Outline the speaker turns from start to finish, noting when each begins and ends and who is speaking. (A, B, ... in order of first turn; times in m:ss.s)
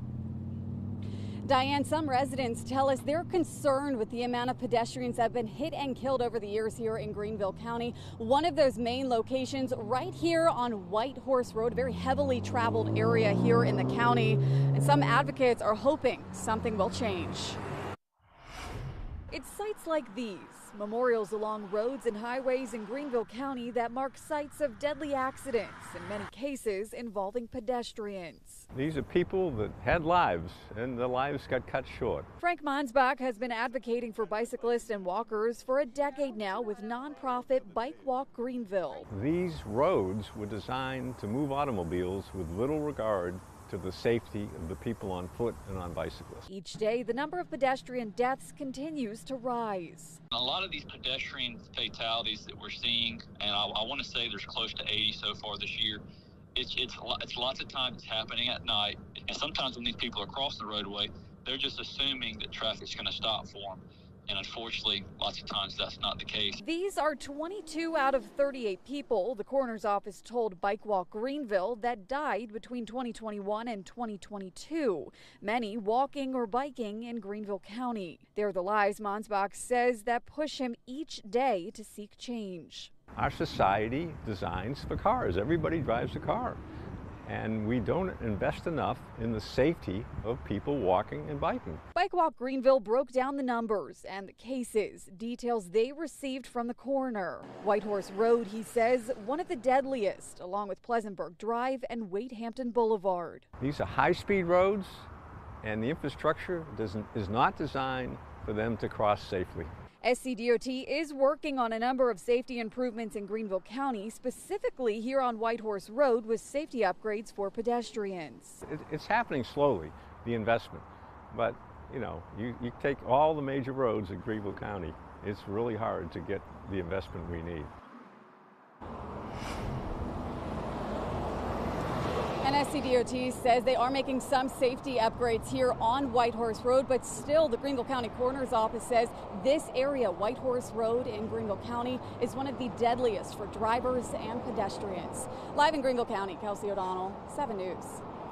0:01.4-0:17.6 A
0:19.3-0:28.6 A
0:28.7-0:32.3 B
0:32.4-0:39.1 A
0:39.1-0:46.5 B
0:46.5-0:50.2 A
0:50.3-0:56.0 C
0:56.5-1:06.6 C
1:06.6-1:22.9 A
1:23.1-1:26.6 B
1:27.2-1:31.8 B
1:31.9-1:43.4 A
1:43.6-1:45.1 B
1:45.6-1:49.7 B
1:50.0-1:58.6 A
1:58.6-2:07.7 B
2:12.4-2:28.0 A